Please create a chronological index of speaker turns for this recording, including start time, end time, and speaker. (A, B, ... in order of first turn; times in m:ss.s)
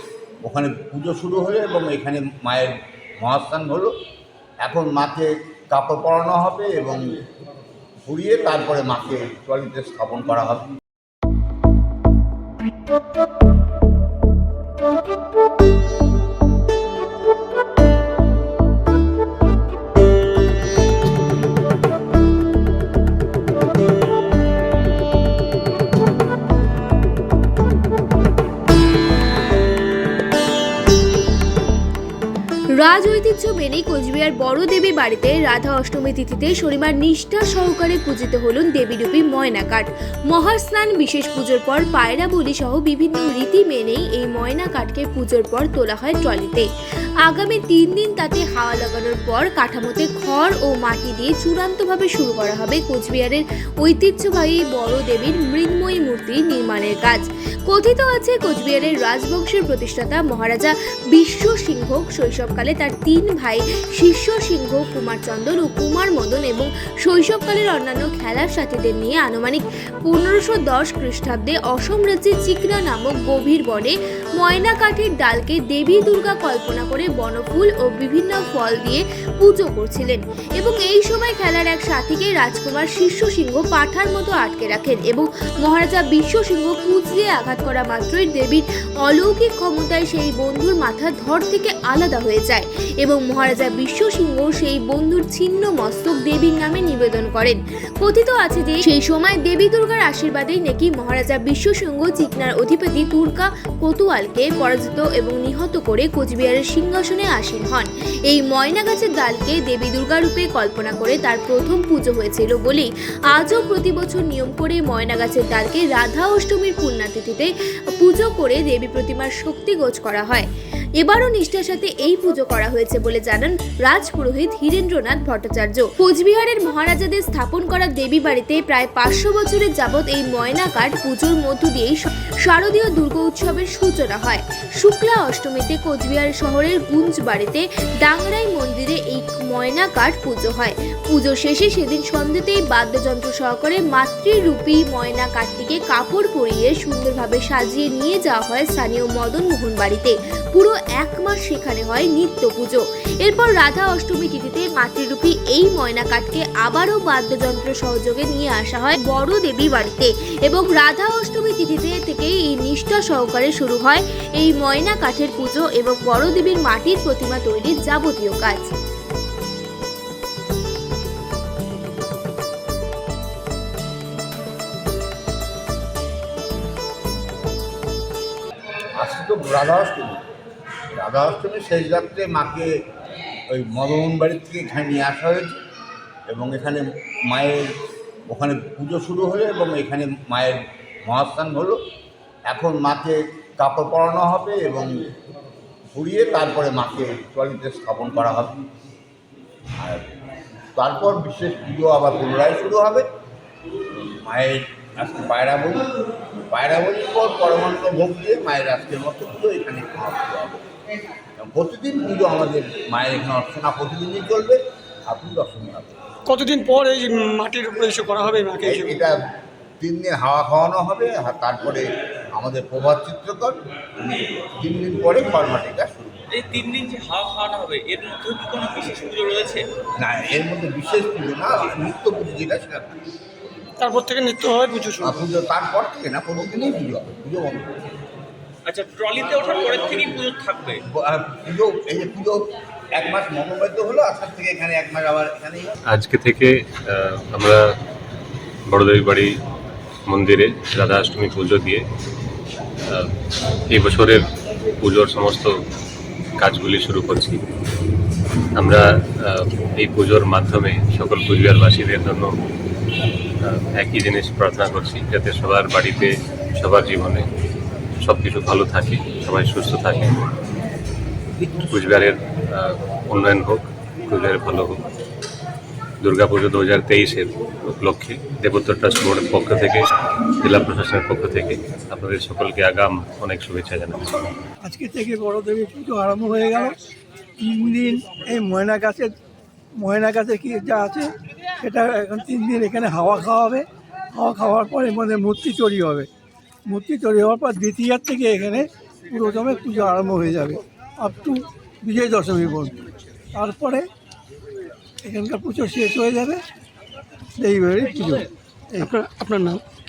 0:00.4-0:03.9 A
0:04.6-0:07.0 A
0:08.0-0:10.6 A
0:32.8-0:46.7 B
0:47.2-1:57.5 B
1:58.0-2:00.5 B
2:01.0-2:48.7 B
2:59.0-3:00.2 A
3:01.0-3:02.7 A
3:03.5-3:05.6 A
3:06.3-3:07.7 A
3:08.3-3:11.8 A
3:12.5-3:14.9 A
3:15.9-3:18.6 A
3:19.8-3:20.1 A
3:20.8-3:23.1 A
3:24.2-3:25.9 A
3:26.5-3:30.6 A
3:31.4-3:35.9 A
3:36.2-3:38.9 C
3:38.6-3:39.2 A
3:39.8-3:46.3 A
3:46.3-3:49.6 D
3:50.0-3:53.0 A
3:53.8-3:55.1 C
3:55.0-3:57.7 A
3:58.6-4:00.8 D
4:00.9-4:05.8 A
4:05.9-4:07.6 E
4:08.7-4:09.3 E
4:10.1-4:11.8 E
4:12.9-4:13.1 E
4:13.7-4:14.3 E
4:14.8-4:15.5 E
4:16.4-4:17.4 E
4:18.6-4:22.4 E
4:23.4-4:27.3 E
4:28.0-4:30.1 E
4:31.5-4:34.8 E
4:36.0-4:39.8 E
4:40.4-4:44.2 E
4:44.6-4:46.7 F
4:47.4-4:49.1 F
4:49.8-4:56.1 F
4:56.7-5:02.8 F
5:03.3-5:03.9 F
5:05.0-5:06.4 F
5:07.4-5:08.9 F
5:08.9-5:09.6 C